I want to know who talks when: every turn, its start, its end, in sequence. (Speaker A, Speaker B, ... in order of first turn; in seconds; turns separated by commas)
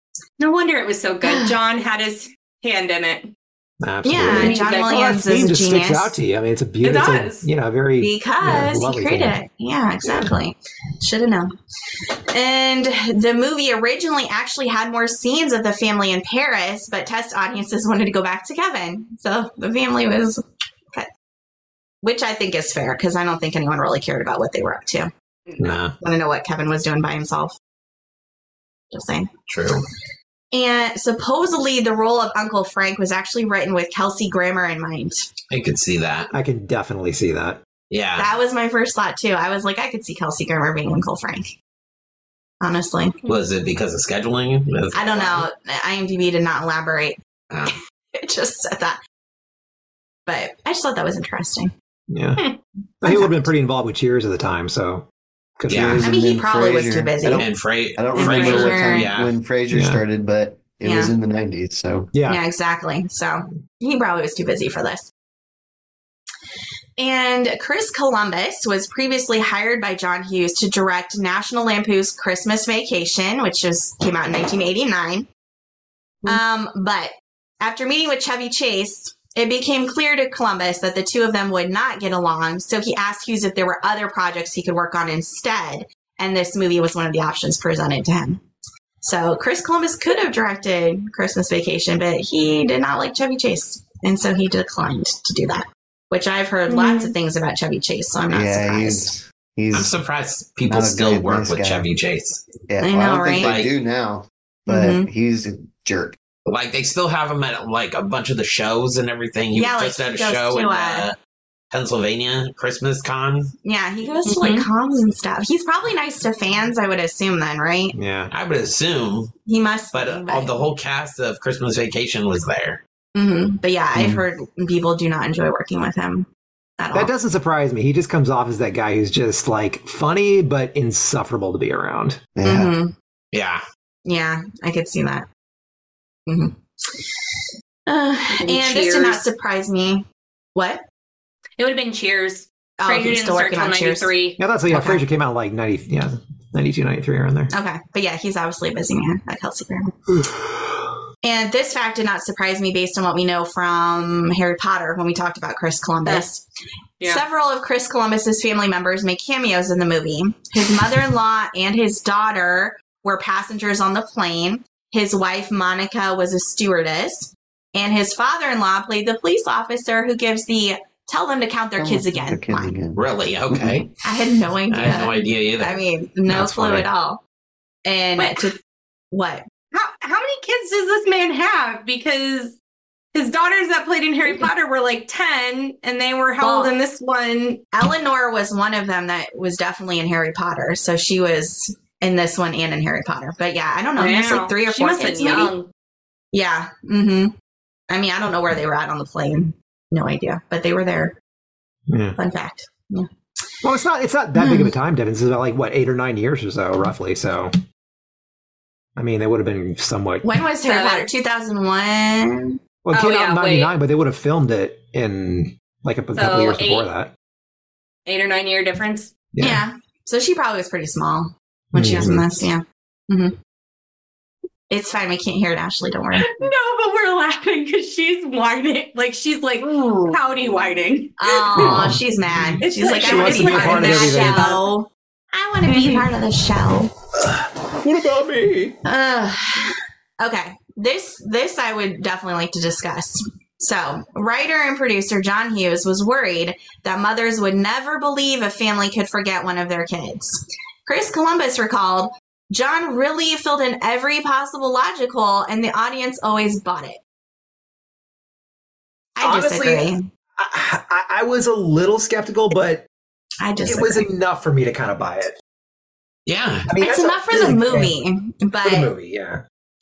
Speaker A: 0.4-3.3, Speaker B: 1.2-1.6, Speaker C: 3.8-9.4, Speaker B: 4.0-6.1, Speaker A: 4.2-5.2, Speaker A: 6.8-7.5, Speaker B: 8.0-11.5, Speaker C: 10.0-10.3, Speaker B: 12.3-21.1, Speaker B: 22.0-25.1, Speaker A: 25.5-25.8, Speaker C: 25.6-25.9, Speaker B: 26.0-27.5, Speaker B: 28.9-29.3, Speaker D: 29.5-29.8, Speaker B: 30.5-35.2, Speaker D: 35.5-36.3, Speaker C: 36.3-37.6, Speaker D: 37.9-38.3, Speaker B: 38.2-41.5, Speaker B: 42.6-43.1, Speaker D: 43.3-45.5, Speaker B: 44.9-47.2, Speaker B: 48.1-49.0, Speaker B: 50.2-51.7, Speaker C: 52.1-52.4, Speaker C: 53.0-55.0, Speaker B: 53.0-53.5, Speaker C: 55.6-56.0, Speaker D: 55.7-56.0, Speaker E: 55.7-62.1, Speaker B: 56.0-57.5, Speaker D: 57.4-59.3, Speaker B: 58.1-59.1, Speaker A: 58.2-58.7, Speaker C: 59.7-60.0, Speaker B: 60.8-61.1, Speaker C: 62.1-62.4, Speaker B: 62.3-65.1, Speaker B: 67.0-75.2, Speaker B: 76.2-88.4, Speaker B: 89.0-99.1, Speaker A: 96.7-97.1, Speaker E: 98.3-99.9, Speaker D: 99.7-102.4, Speaker E: 100.6-101.9, Speaker E: 102.7-106.2, Speaker B: 102.8-103.5, Speaker D: 103.4-103.7, Speaker B: 104.7-105.1, Speaker D: 106.5-111.2, Speaker B: 109.5-111.1, Speaker D: 111.7-113.5, Speaker B: 113.6-117.9, Speaker A: 114.2-114.7, Speaker C: 117.9-118.3, Speaker D: 118.3-119.3, Speaker B: 119.5-120.7, Speaker D: 119.9-122.8, Speaker B: 123.1-126.3, Speaker E: 123.9-124.2, Speaker B: 126.8-127.1, Speaker C: 126.9-132.2, Speaker E: 132.3-132.7, Speaker B: 132.4-132.9, Speaker D: 133.3-133.6, Speaker B: 134.0-135.2, Speaker B: 136.3-136.9, Speaker B: 137.9-140.0, Speaker A: 138.3-139.2, Speaker B: 140.5-140.8, Speaker A: 141.6-144.4, Speaker B: 142.8-144.1, Speaker C: 144.4-147.5, Speaker B: 144.7-145.0, Speaker B: 147.5-149.9, Speaker C: 150.1-150.8, Speaker B: 151.2-156.4, Speaker B: 157.0-172.8, Speaker E: 171.8-173.8, Speaker D: 173.0-173.9, Speaker B: 174.0-177.2, Speaker D: 174.7-175.8, Speaker C: 176.3-176.9, Speaker B: 177.8-178.5, Speaker A: 178.2-178.5, Speaker B: 179.1-179.4, Speaker A: 179.7-182.5, Speaker A: 183.1-187.6, Speaker B: 186.4-186.7, Speaker B: 187.7-195.5, Speaker A: 193.9-195.7, Speaker B: 196.3-197.3, Speaker B: 197.9-201.1, Speaker C: 201.9-202.2, Speaker B: 202.2-203.1, Speaker C: 203.6-207.5, Speaker B: 204.3-204.7, Speaker C: 208.9-210.2, Speaker B: 210.2-212.5, Speaker A: 210.7-211.1, Speaker C: 212.8-217.1, Speaker A: 212.9-213.7, Speaker A: 216.1-216.9, Speaker A: 218.1-219.1, Speaker C: 219.3-219.6, Speaker B: 219.4-223.3, Speaker C: 221.7-222.5, Speaker B: 224.7-226.3, Speaker A: 226.2-231.9, Speaker B: 229.6-230.2, Speaker B: 231.2-236.9, Speaker C: 231.6-234.6, Speaker A: 232.6-234.7, Speaker A: 235.7-236.1, Speaker C: 237.2-238.8, Speaker B: 238.8-257.0, Speaker B: 259.1-260.0, Speaker C: 259.2-262.8, Speaker B: 263.4-264.0, Speaker C: 263.6-265.4, Speaker D: 266.2-266.7, Speaker C: 266.7-267.9, Speaker B: 266.8-268.9, Speaker C: 268.6-269.4